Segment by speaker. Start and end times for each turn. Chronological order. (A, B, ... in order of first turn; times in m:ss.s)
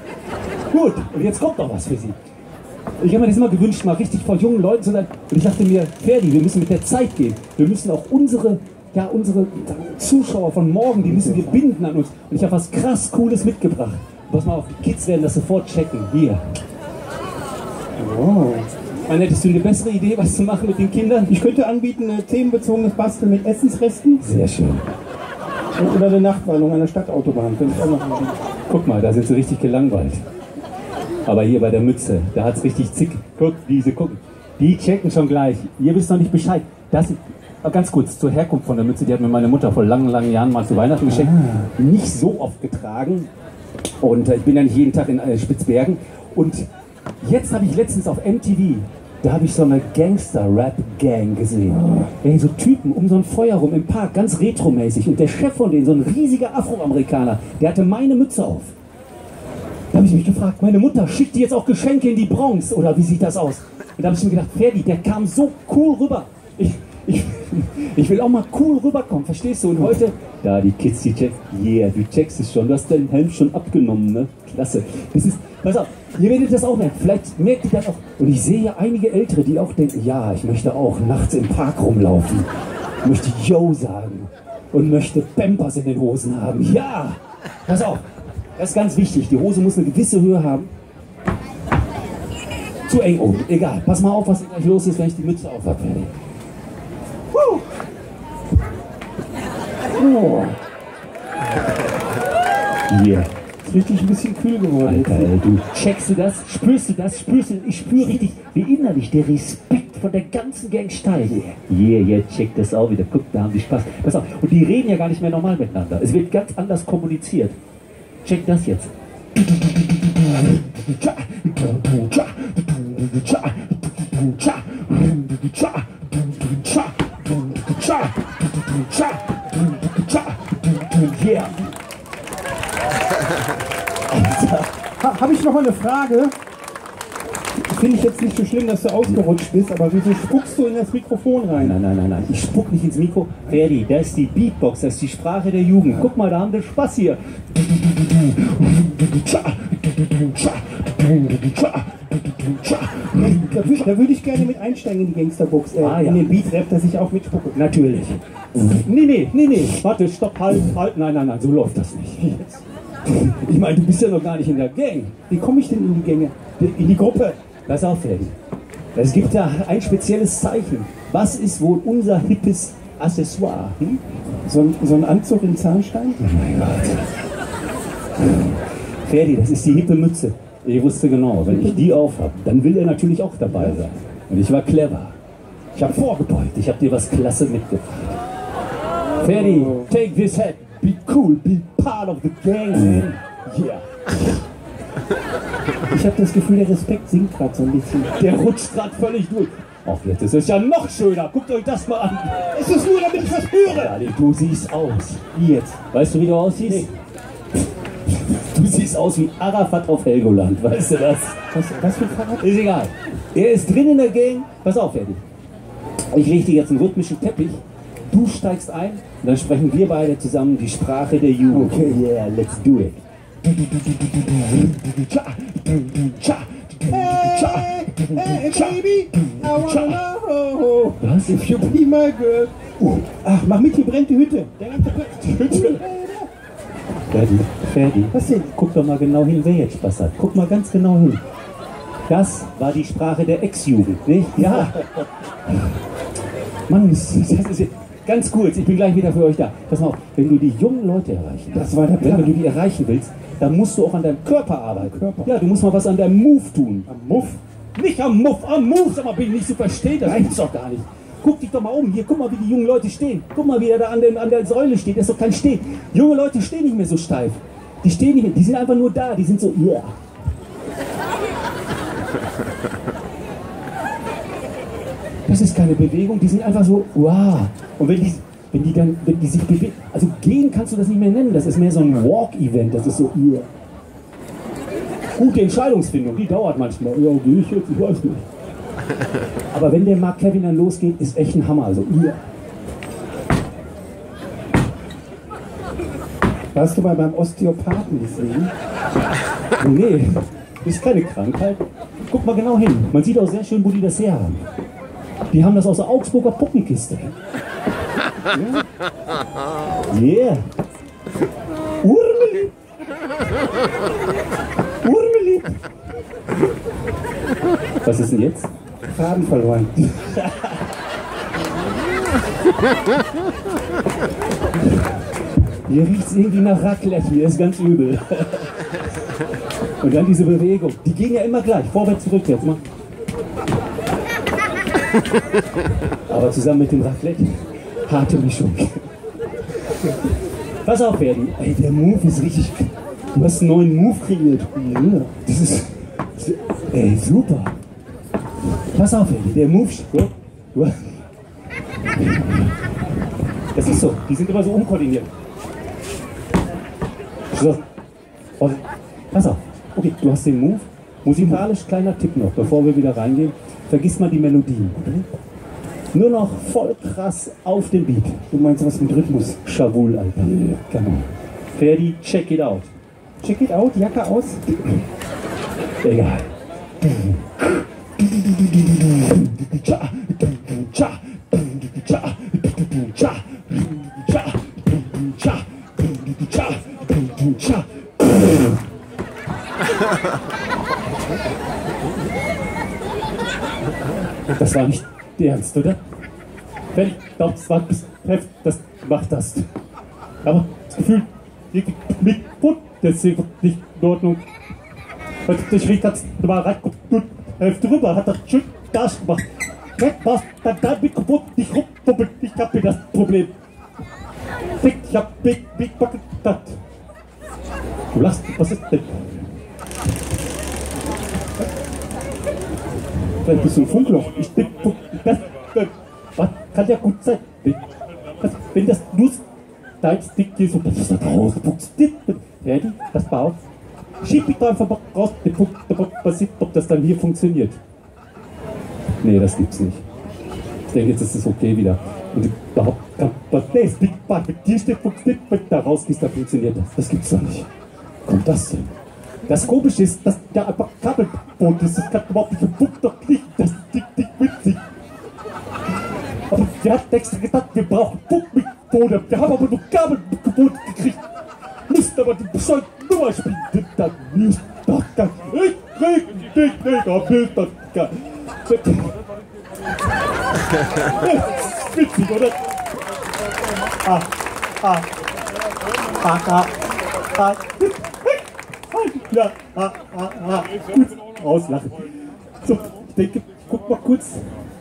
0:00.7-0:02.2 A
0:03.0-0:16.6 A
0:11.0-0:11.6 B
0:18.0-0:18.7 B
0:19.1-0:21.3 A
0:21.3-0:24.2 B
0:24.2-0:24.9 A
0:25.8-0:28.4 B
0:28.7-0:30.2 A
0:31.3-0:43.3 A
0:41.1-0:41.7 B
0:44.0-0:46.7 A
0:47.2-0:58.7 A
0:59.9-1:22.5 A
1:23.0-1:28.1 A
1:28.6-1:30.7 A
1:32.9-1:36.1 A
1:39.9-1:40.6 B
1:42.9-1:43.3 A
1:43.6-1:45.3 B
1:44.8-1:57.6 A
1:58.2-1:58.9 A
2:00.6-2:11.6 A
2:14.1-2:14.7 A
2:15.0-2:16.3 B
2:17.6-2:21.8 B
2:21.5-2:27.2 A
2:28.1-2:33.9 A
2:33.1-2:37.6 B
2:35.8-2:36.3 A
2:37.5-2:45.2 A
2:45.3-2:47.4 B
2:47.7-2:48.3 A
2:49.0-2:54.0 A
2:54.5-2:56.2 B
2:56.2-2:57.1 A
2:59.0-3:05.2 A
3:01.5-3:01.8 B
3:05.8-3:08.2 A
3:09.2-3:14.2 A
3:09.4-3:09.9 B
3:15.9-3:16.9 A
3:16.8-3:18.2 B
3:18.1-3:22.6 A
3:22.5-3:24.0 B
3:23.2-3:25.4 A
3:25.4-3:25.8 B
3:25.9-3:26.9 A
3:28.1-3:31.4 A
3:31.5-3:32.5 B
3:32.4-3:35.2 A
3:36.1-3:43.0 A
3:41.5-3:42.1 B
3:44.2-3:50.0 A
3:46.9-3:56.3 B
3:51.0-3:51.8 A
3:55.3-3:55.8 A
3:57.1-4:01.2 A
3:58.1-3:58.5 B
4:02.1-4:04.9 A
4:04.5-4:04.8 B
4:06.7-4:30.0 A
4:11.5-4:12.4 B
4:14.9-4:15.3 B
4:16.9-4:17.4 B
4:20.0-4:20.4 B
4:35.3-4:43.5 A
4:45.2-4:48.2 A
4:49.5-4:52.3 A
4:56.5-4:58.5 B
4:59.6-5:04.5 A
5:05.3-5:07.2 A
5:08.3-5:08.6 B
5:09.9-5:10.5 A
5:11.8-5:12.5 A
5:14.8-5:15.6 A
5:17.8-5:18.5 A
5:18.8-5:20.2 B
5:25.7-5:28.5 A
5:29.8-5:32.6 A
5:36.1-5:38.9 A
5:40.6-5:44.5 A
5:44.5-5:45.2 B
5:45.2-5:47.6 A
5:48.7-5:51.0 A
5:53.5-5:55.1 A
5:57.3-5:57.6 A
5:58.4-6:05.0 A
6:01.2-6:01.4 B
6:05.9-6:08.3 A
6:08.3-6:09.4 B
6:09.3-6:12.7 A
6:13.2-6:14.6 B
6:15.8-6:16.3 A
6:16.8-6:28.6 A
6:34.3-6:35.8 A
6:36.7-6:39.5 A
6:40.2-6:44.2 A
6:45.3-6:49.3 A
6:49.8-6:53.4 A
6:54.6-6:56.6 A
6:57.9-6:59.2 A
7:03.2-7:07.6 A
7:08.2-7:09.2 A
7:09.8-7:13.4 A
7:14.0-7:17.6 A
7:19.0-7:19.8 A
7:20.7-7:27.5 A
7:28.1-7:28.8 A
7:29.3-7:34.6 A
7:36.3-7:41.0 A
7:41.7-7:49.0 A
7:50.8-7:52.6 A
7:53.8-7:54.9 A
7:56.0-8:01.9 A
8:02.4-8:04.2 A